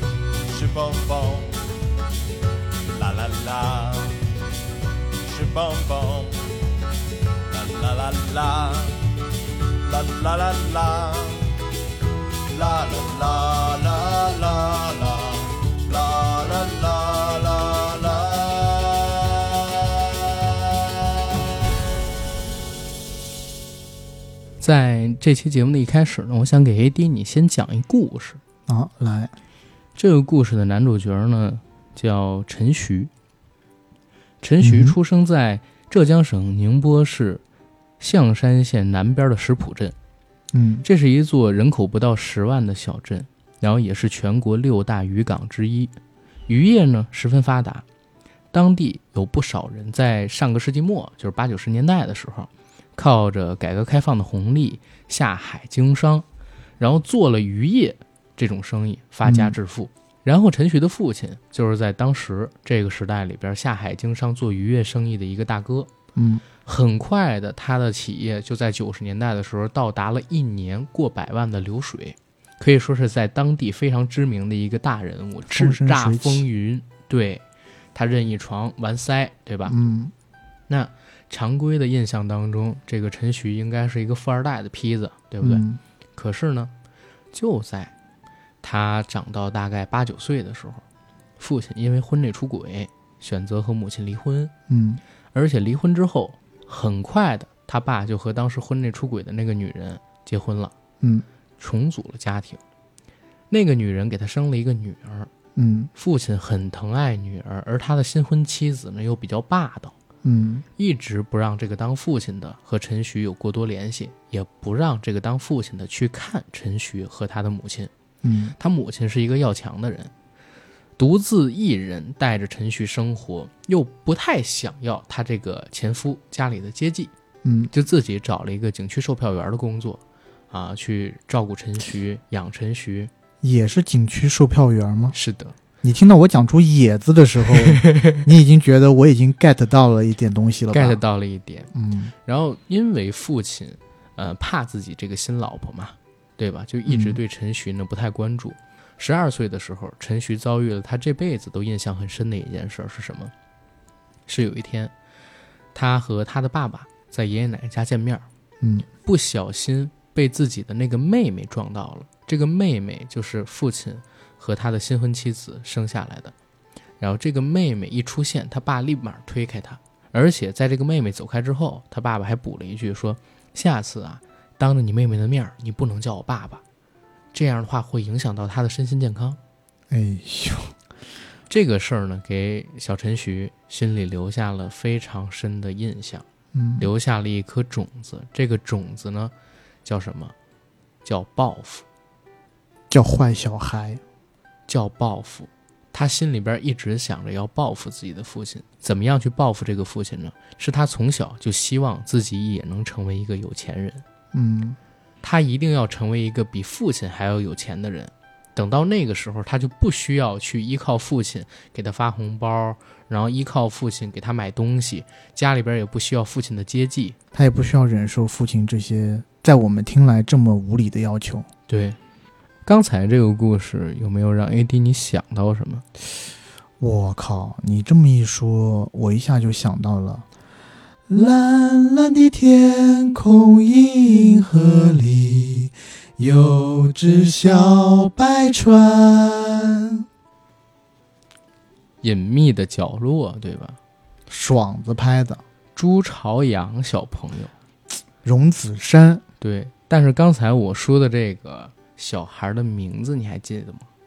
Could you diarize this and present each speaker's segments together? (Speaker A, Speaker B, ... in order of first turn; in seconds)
Speaker A: 0.3-1.8, 2.9-4.3, 5.2-6.6, 7.5-11.8, 12.3-21.0
Speaker B: 24.6-28.4, 29.9-33.1, 34.4-37.4, 38.0-39.9, 40.8-45.9, 46.5-47.8, 48.5-56.2, 56.8-65.9, 66.6-77.4, 77.9-79.8, 80.7-85.6, 86.2-86.7, 87.3-87.9, 88.6-90.8, 91.4-94.5, 95.3-100.7, 101.6-102.6, 103.5-105.3, 106.0-109.9, 110.8-117.9, 118.6-120.1, 121.0-127.1, 127.7-130.0, 130.5-133.1, 135.1-135.5, 137.7-138.2, 140.7-141.7, 142.2-153.3, 154.3-154.9, 155.7-158.2, 159.0-166.3, 167.0-176.6, 177.3-179.4, 181.5-186.2, 186.8-189.3, 189.8-190.3, 191.0-191.8, 194.7-204.0, 205.2-217.2, 221.7-222.0, 222.7-225.8, 242.0-243.8, 245.8-247.5, 249.4-253.8
Speaker C: 28.7-29.3, 34.6-35.0, 40.5-40.8, 59.2-59.5, 66.2-66.4, 75.5-76.4, 79.7-80.1, 85.4-85.8, 94.7-95.0, 105.5-105.9, 110.2-110.6, 118.2-118.5, 127.4-127.7, 133.4-135.1, 135.8-141.0, 141.7-142.1, 146.9-147.2, 179.9-180.7, 186.5-186.9, 192.9-194.0, 204.3-204.8, 217.3-221.5, 226.8-230.2, 231.1-240.0, 244.3-245.4, 248.2-249.2